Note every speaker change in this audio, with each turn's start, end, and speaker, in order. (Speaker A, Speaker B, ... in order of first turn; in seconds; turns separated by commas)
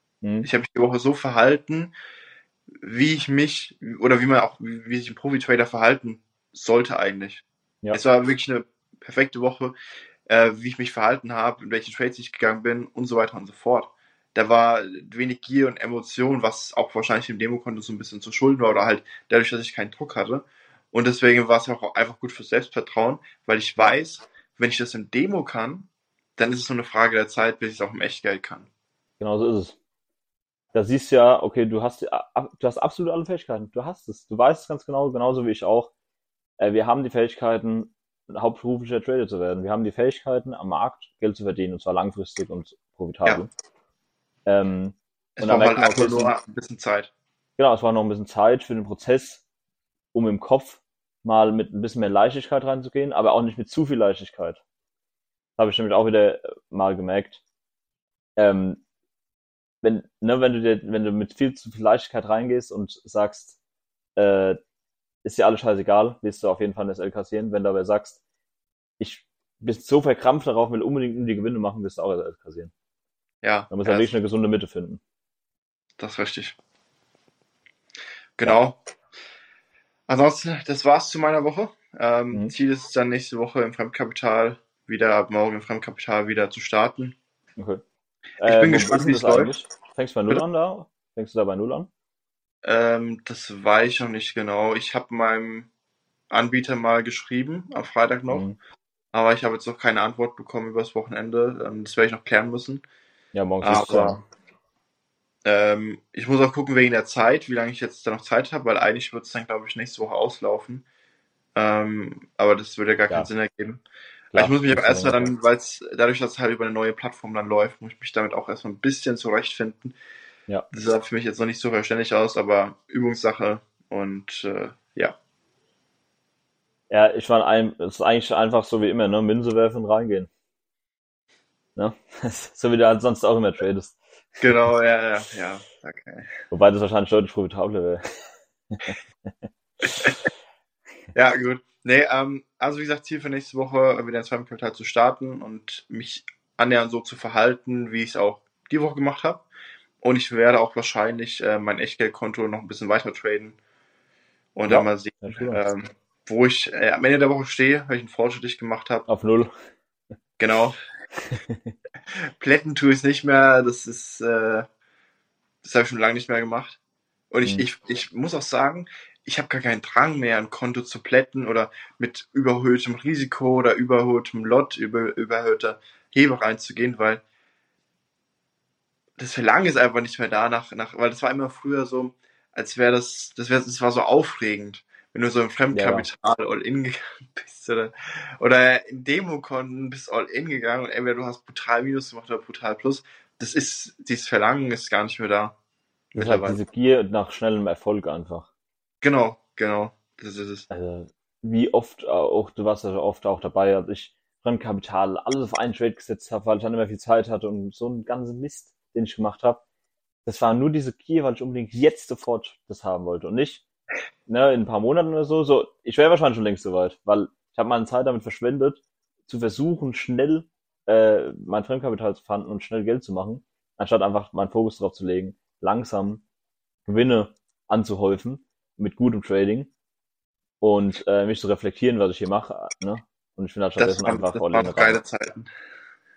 Speaker A: 0.2-0.5, Speaker B: 0.4-1.9, Speaker B: 2.8-9.7, Speaker B: 10.3-28.7, Speaker A: 29.2-29.8, Speaker A: 30.7-35.9, Speaker A: 36.6-43.5, Speaker A: 44.5-46.3, Speaker B: 45.4-47.1, Speaker A: 47.6-49.4, Speaker A: 50.1-54.6, Speaker A: 55.6-57.4, Speaker A: 58.4-58.8, Speaker A: 59.8-63.6, Speaker A: 64.2-64.6, Speaker A: 65.2-68.2, Speaker A: 69.0-72.7, Speaker B: 73.4-74.1, Speaker A: 73.7-75.0, Speaker B: 76.0-76.6, Speaker B: 78.4-78.8, Speaker B: 80.1-87.2, Speaker A: 87.6-87.8, Speaker A: 88.4-91.9, Speaker B: 88.4-89.5, Speaker B: 92.6-95.7, Speaker B: 96.3-98.5, Speaker A: 98.3-98.6, Speaker B: 99.1-102.8, Speaker A: 103.3-104.2, Speaker B: 103.6-104.2, Speaker B: 105.4-110.8, Speaker B: 111.5-113.8, Speaker A: 114.3-115.3, Speaker B: 114.3-119.9, Speaker B: 120.7-125.1, Speaker A: 126.9-130.3, Speaker A: 131.8-134.0, Speaker B: 134.4-136.3, Speaker A: 136.5-138.0, Speaker B: 141.1-149.4, Speaker B: 150.0-153.6, Speaker B: 154.5-159.1, Speaker A: 154.7-155.6, Speaker A: 159.1-159.5, Speaker B: 160.4-160.8, Speaker A: 161.2-161.7, Speaker B: 162.4-164.7, Speaker B: 165.6-166.8, Speaker B: 167.3-177.2, Speaker B: 179.2-195.5, Speaker A: 185.7-186.1, Speaker B: 196.1-196.6, Speaker A: 196.1-198.5, Speaker B: 199.0-200.7, Speaker A: 200.7-209.6, Speaker A: 210.2-213.6, Speaker A: 214.3-226.2, Speaker A: 226.8-229.7, Speaker A: 230.6-235.0, Speaker B: 233.8-235.5